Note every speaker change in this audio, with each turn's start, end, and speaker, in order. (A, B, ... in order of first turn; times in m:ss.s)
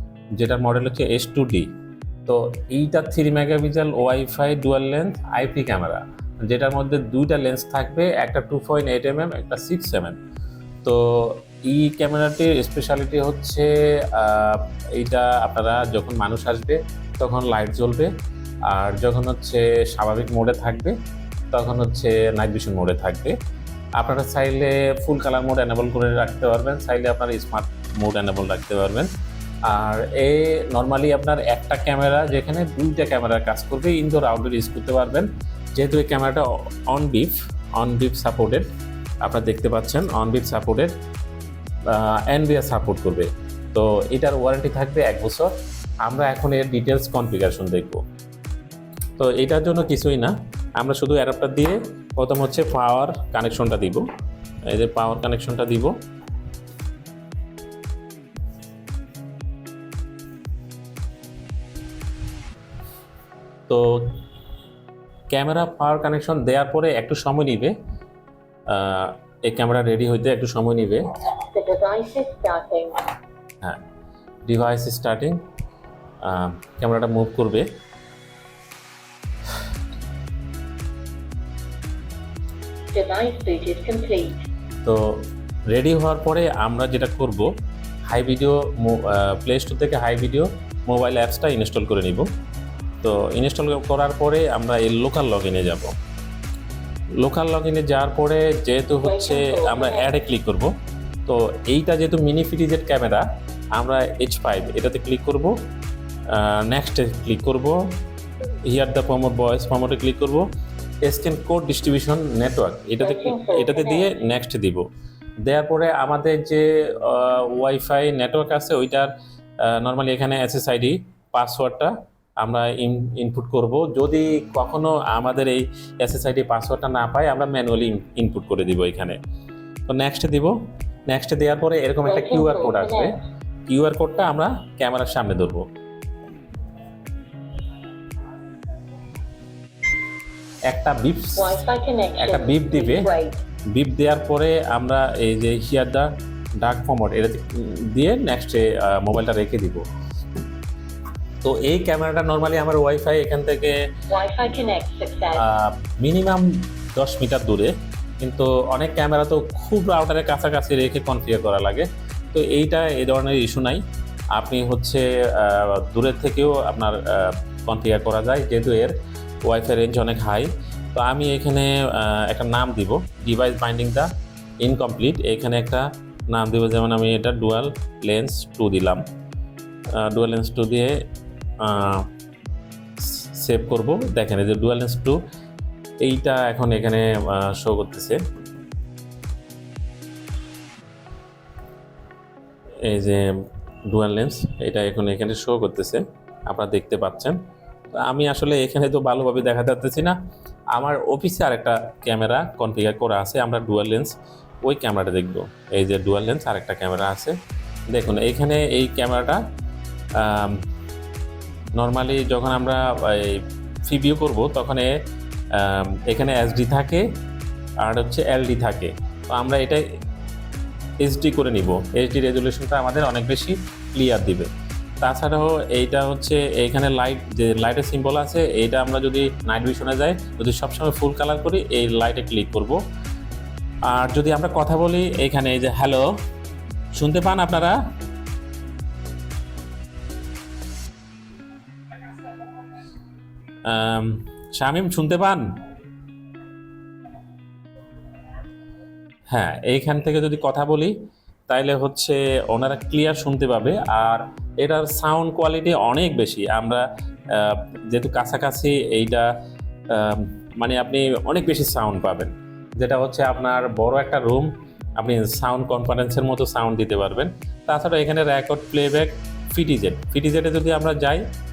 0:00.4-0:01.7 A
0:02.3-0:10.2 A
0:10.8-0:18.1 A
0:18.7-0:21.0 A
0:21.5-0:23.4 A
0:24.0-0:29.1 A
0:29.7-0:38.7 A
0:39.2-0:40.9 A
0:41.9-0:45.5 A
0:46.1-0:48.0 A
0:49.2-0:54.1 A
0:54.7-0:55.9 A
1:03.7-1:04.2 A
1:05.3-1:07.8 A
1:08.7-1:11.1 A
1:11.5-1:13.0 B
1:14.5-1:15.4 A
1:16.2-1:17.7 A
1:22.9-1:24.4 B
1:24.8-1:27.5 A
1:28.1-1:32.3 A
1:33.0-1:35.9 A
1:37.2-1:40.7 A
1:39.0-1:40.1 B
1:41.3-1:45.6 A
1:46.3-1:47.8 A
1:48.7-1:50.5 A
1:51.0-1:54.9 A
1:53.0-1:54.1 B
1:55.4-1:59.1 A
1:59.6-2:09.2 A
2:09.9-2:10.6 A
2:11.1-2:13.2 A
2:12.0-2:13.2 B
2:13.7-2:15.7 A
2:20.7-2:21.6 A
2:21.4-2:23.4 B
2:22.2-2:23.1 A
2:23.7-2:26.1 A
2:26.6-2:29.8 A
2:31.4-2:33.8 A
2:34.1-2:35.5 B
2:35.4-2:43.8 A
2:44.4-2:48.9 A
2:49.5-2:54.1 A
2:54.6-2:59.0 A
3:00.0-3:01.0 A
3:01.6-3:02.1 A
3:03.1-3:05.2 A
3:06.0-3:08.2 A
3:12.8-3:13.3 A
3:13.9-3:17.4 A
3:17.9-3:20.2 A
3:20.7-3:24.1 A
3:24.6-3:27.4 A
3:27.9-3:29.4 A
3:30.2-3:30.6 A
3:31.8-3:34.9 A
3:35.5-3:37.0 A
3:37.8-3:39.8 A
3:41.0-3:44.5 A
3:45.0-3:52.8 A
3:53.9-3:56.1 A
3:57.0-3:57.8 A
4:03.7-4:05.4 A
4:09.3-4:11.0 A
4:11.5-4:19.3 A
4:19.9-4:24.5 A
4:25.0-4:31.2 A